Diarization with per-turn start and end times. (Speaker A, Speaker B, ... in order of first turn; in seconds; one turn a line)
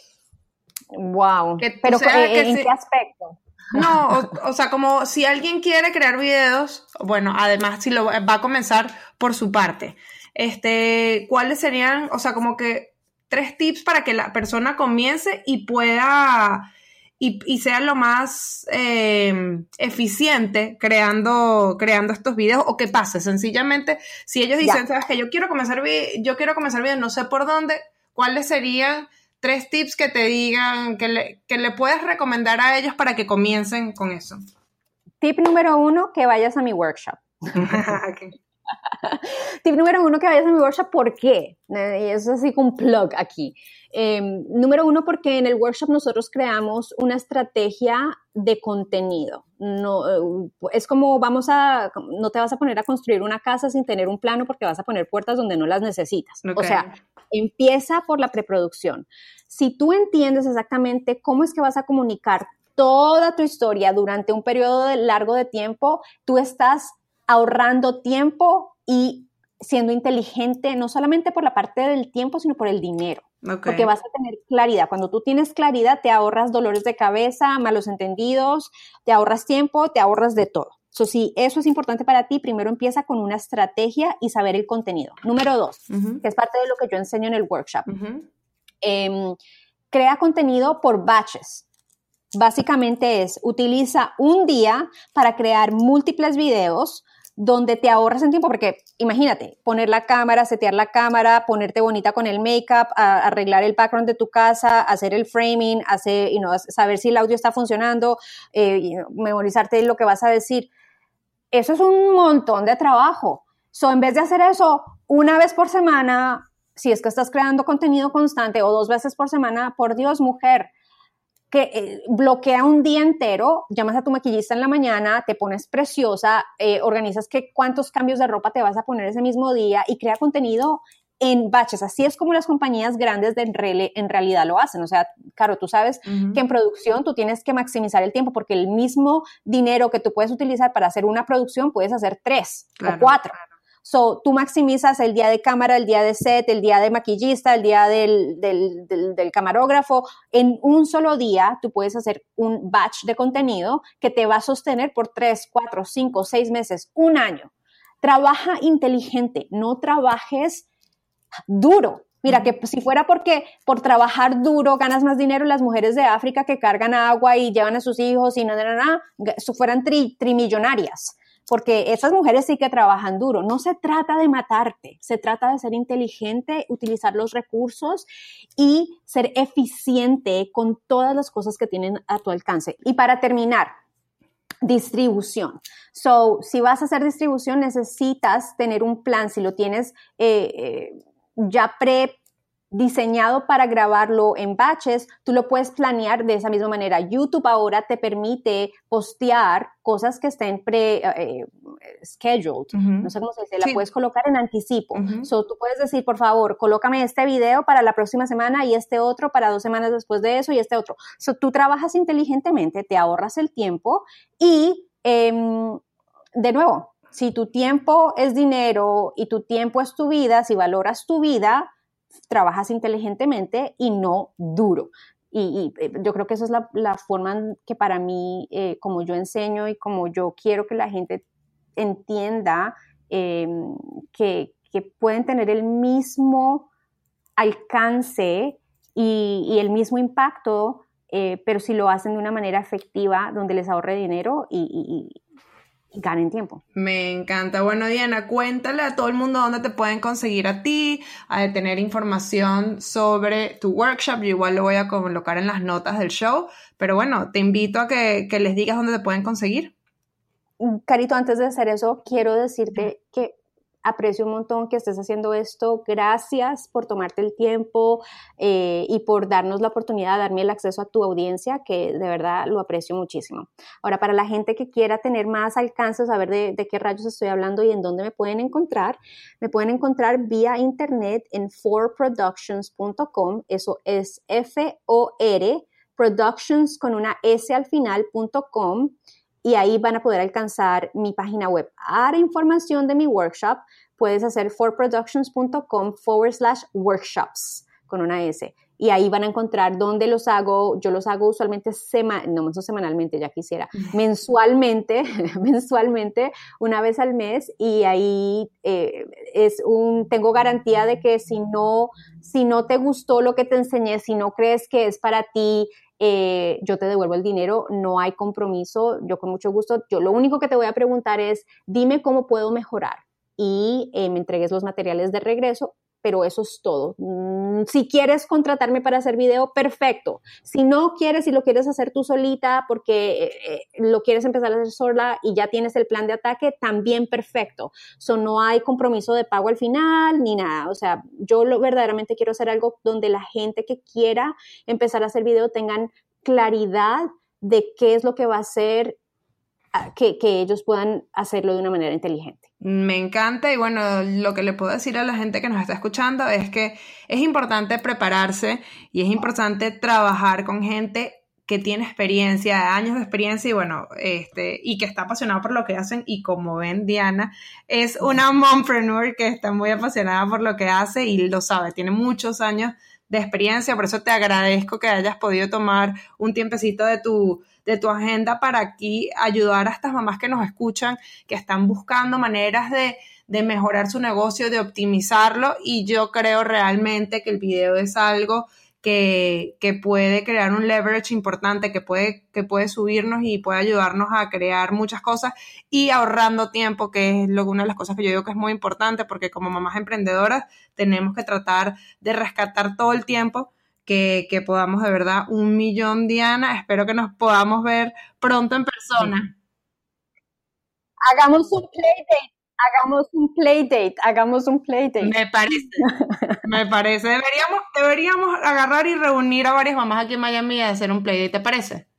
Speaker A: 0.9-3.8
Speaker B: 1.6-2.7
Speaker B: 3.7-16.7
Speaker B: 17.2-34.4
Speaker A: 35.2-38.0
Speaker B: 37.5-38.3
Speaker A: 38.9-87.9
Speaker B: 56.4-57.0
Speaker B: 73.4-73.9
Speaker B: 85.9-86.2
Speaker B: 87.9-88.3
Speaker A: 88.8-89.4
Speaker A: 89.9-91.7
Speaker A: 92.3-110.7
Speaker A: 111.5-120.7
Speaker A: 121.5-157.5
Speaker B: 136.1-136.4
Speaker B: 142.8-143.4
Speaker A: 158.0-160.7
Speaker A: 161.5-178.1
Speaker A: 178.6-183.7
Speaker A: 184.6-192.2
Speaker A: 192.7-215.8
Speaker B: 202.7-203.1
Speaker B: 204.9-205.3
Speaker A: 216.4-221.7
Speaker A: 222.3-231.2
Speaker A: 231.8-236.7
Speaker A: 237.4-245.2
Speaker A: 245.9-246.6
Speaker B: 246.8-259.7
Speaker A: 260.6-349.0
Speaker A: 349.7-352.4
Speaker B: 352.6-409.3
Speaker A: 411.0-415.1
Speaker B: 415.0-415.9
Speaker A: 415.8-416.4
Speaker B: 416.4-421.9